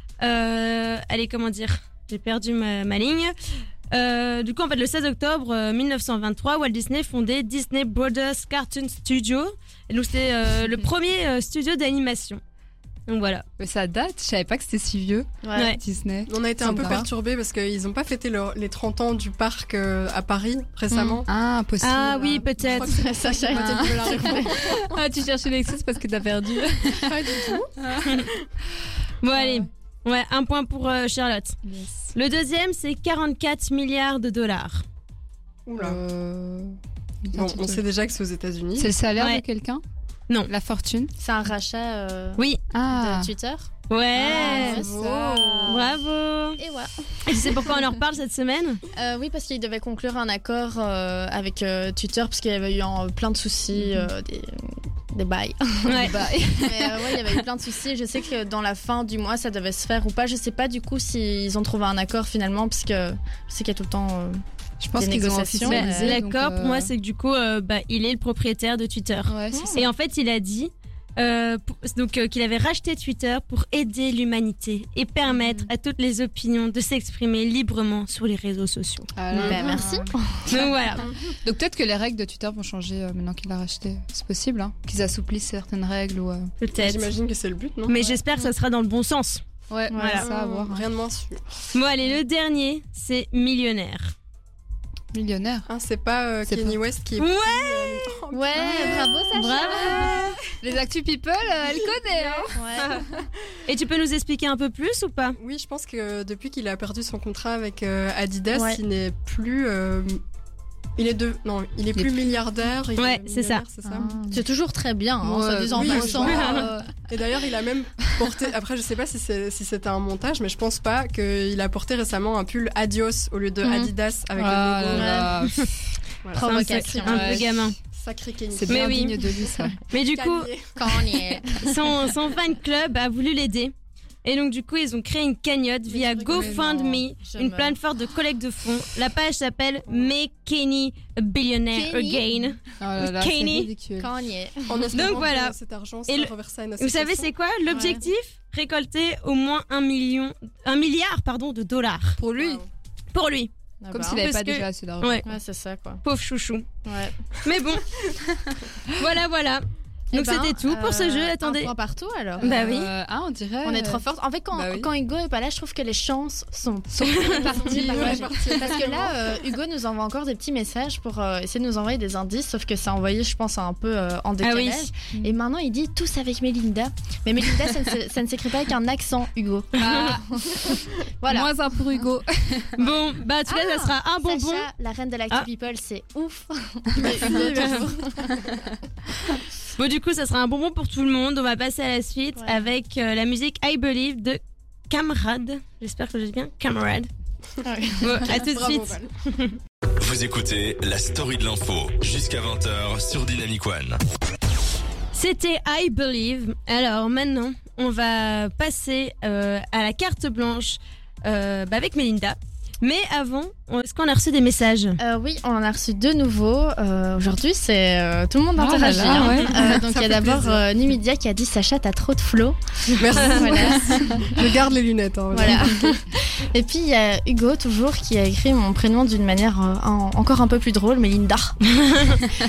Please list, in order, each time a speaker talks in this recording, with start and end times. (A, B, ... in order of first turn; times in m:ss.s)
0:00.2-0:03.3 A
0:03.9-0:12.4 A
0:13.1-0:13.4 A
0:13.6-0:17.0 B
0:15.4-0:15.7 C
0:16.3-0:21.3 D
0:16.6-0:17.0 C
0:20.9-0:21.2 C
0:21.3-0:22.7 B
0:21.8-0:22.9 A
0:22.7-0:24.9 D
0:22.8-0:24.7 C
0:23.5-0:28.2 B
0:27.0-0:27.7 C
0:29.2-0:31.6 A
0:29.3-0:29.6 B
0:31.6-0:32.1 B
0:32.1-0:34.8 A
0:35.6-0:36.0 D
0:35.8-0:37.8 B
0:37.3-0:38.9 D
0:38.8-0:39.8 B
0:39.2-0:39.4 A
0:40.5-0:41.1 B
0:41.2-0:45.0 C
0:42.7-0:43.3 B
0:43.9-0:44.8 A
0:44.3-0:45.8 D
0:44.3-0:45.9 B
0:45.7-0:46.6 A
0:46.6-0:47.6 C
0:47.2-0:48.8 A
0:48.9-1:04.4 C
0:53.7-0:54.1 B
0:55.9-0:56.1 A
0:55.9-0:57.4 B
1:04.8-1:06.9 B
1:04.9-1:06.2 C
1:05.6-1:19.1 A
1:09.3-1:09.9 B
1:09.5-1:09.8 C
1:15.3-1:15.7 B
1:19.2-1:20.1 B
1:19.3-1:19.8 D
1:19.4-1:20.7 C
1:20.5-1:21.0 A
1:21.4-1:26.5 B
1:26.6-1:27.1 A
1:26.8-1:28.0 D
1:27.9-1:29.4 A
1:29.7-1:30.8 B
1:29.9-1:30.2 C
1:29.9-1:30.2 A
1:30.2-1:31.4 D
1:31.7-1:34.1 A
1:35.1-1:35.7 B
1:35.7-1:39.3 D
1:36.4-1:36.8 B
1:37.2-1:40.4 A
1:38.3-1:40.2 C
1:38.6-1:39.1 B
1:40.6-1:43.0 B
1:42.5-1:43.0 C
1:43.6-1:45.4 A
1:45.4-1:50.2 D
1:48.5-1:48.8 C
1:51.0-1:54.2 D
1:52.0-1:52.2 B
1:53.0-1:53.6 A
1:53.8-1:54.4 B
1:54.3-1:56.7 C
1:55.2-1:57.0 B
1:55.7-2:05.3 D
1:56.3-1:56.6 A
2:03.6-2:03.9 C
2:04.3-2:05.7 B
2:04.9-2:05.3 C
2:06.2-2:06.7 D
2:06.3-2:07.4 C
2:06.4-2:07.7 A
2:06.5-2:07.7 B
2:07.8-2:11.4 D
2:08.5-2:09.8 B
2:08.7-2:09.2 A
2:09.9-2:10.5 A
2:10.8-2:11.7 C
2:11.6-2:13.7 A
2:14.2-2:23.7 A
2:15.9-2:17.0 D
2:16.3-2:16.6 C
2:17.2-2:17.8 C
2:21.7-2:22.4 C
2:22.8-2:24.1 B
2:24.0-2:25.0 C
2:24.7-2:27.3 D
2:24.9-2:25.6 A
2:26.1-2:32.2 A
2:27.7-2:28.0 C
2:32.2-2:32.6 B
2:32.3-2:32.6 D
2:33.1-2:33.5 A
2:33.8-2:34.2 C
2:33.9-2:35.3 B
2:34.1-2:35.2 A
2:35.2-2:36.0 C
2:36.0-2:36.6 A
2:36.8-2:37.2 C
2:37.4-2:37.9 A
2:38.9-2:41.7 A
2:40.1-2:42.5 C
2:42.4-2:42.9 A
2:42.4-2:44.9 B
2:43.6-3:01.5 C
2:46.9-2:48.9 B
2:47.1-2:47.4 A
2:47.3-2:49.2 D
2:54.4-2:54.9 A
2:59.8-3:00.7 B
2:59.8-3:00.1 A
3:01.3-3:02.8 B
3:02.8-3:04.7 A
3:02.8-3:08.4 C
3:07.0-3:08.2 D
3:09.8-3:17.1 A
3:12.4-3:12.6 C
3:17.6-3:18.1 C
3:18.0-3:19.6 A
3:18.2-3:19.1 D
3:20.0-3:24.0 E
3:25.1-3:35.0 A
3:35.0-3:42.6 C
3:38.6-3:39.8 B
3:39.2-3:40.6 D
3:43.0-3:45.9 D
3:43.1-3:44.4 C
3:45.3-3:51.6 C
3:51.7-3:52.2 A